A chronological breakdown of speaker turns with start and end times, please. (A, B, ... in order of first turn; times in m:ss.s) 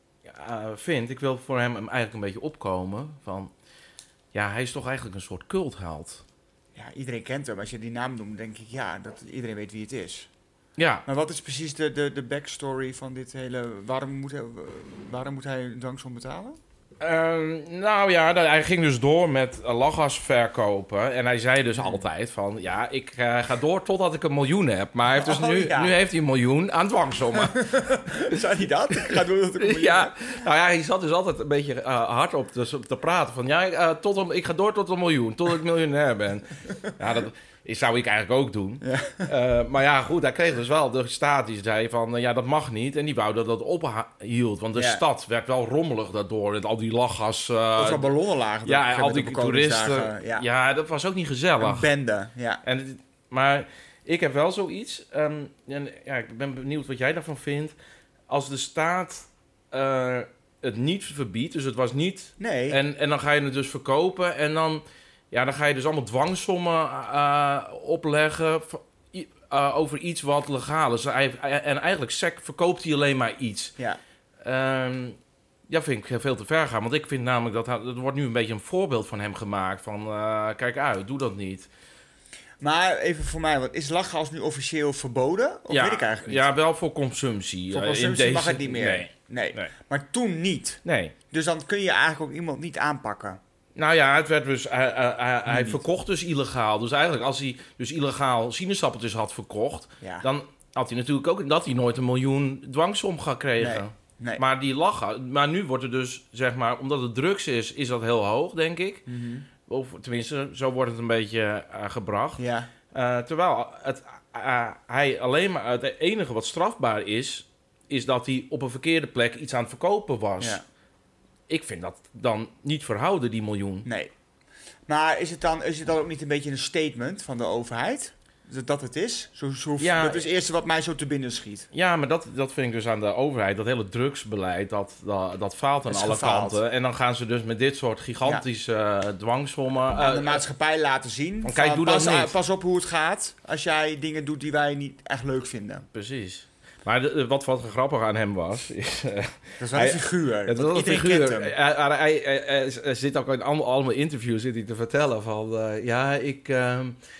0:00.2-0:03.5 A
0:04.3-0:06.2 A
0:06.7-0:10.3 B
0:10.8-0:11.0 A
0:11.0-0:16.6 B
0:17.0-0:27.7 A
0:21.7-0:22.0 B
0:25.1-0:26.0 B
0:27.3-0:30.1 B
0:28.9-0:48.1 A
0:38.8-0:39.3 B
0:44.7-0:45.0 B
0:47.8-0:50.4 B
0:48.6-0:51.9 A
0:51.6-0:52.6 B
0:52.6-0:57.7 A
0:58.3-1:13.7 A
1:02.4-1:02.8 B
1:14.4-1:15.2 A
1:15.7-1:21.7 A
1:22.6-1:26.5 B
1:25.7-1:29.7 A
1:27.7-1:30.8 B
1:30.8-1:31.1 A
1:31.3-1:33.4 B
1:33.8-1:49.0 A
1:35.5-1:35.8 B
1:40.0-1:40.3 B
1:43.6-1:44.4 B
1:49.1-1:49.5 B
1:49.6-2:00.6 A
1:52.4-1:52.7 B
2:01.5-2:03.9 A
2:03.8-2:04.1 B
2:04.9-2:11.7 B
2:09.8-2:10.2 A
2:11.7-2:20.4 A
2:15.9-2:16.6 B
2:20.0-2:25.8 B
2:21.4-2:22.3 A
2:25.9-2:37.0 A
2:29.6-2:31.5 B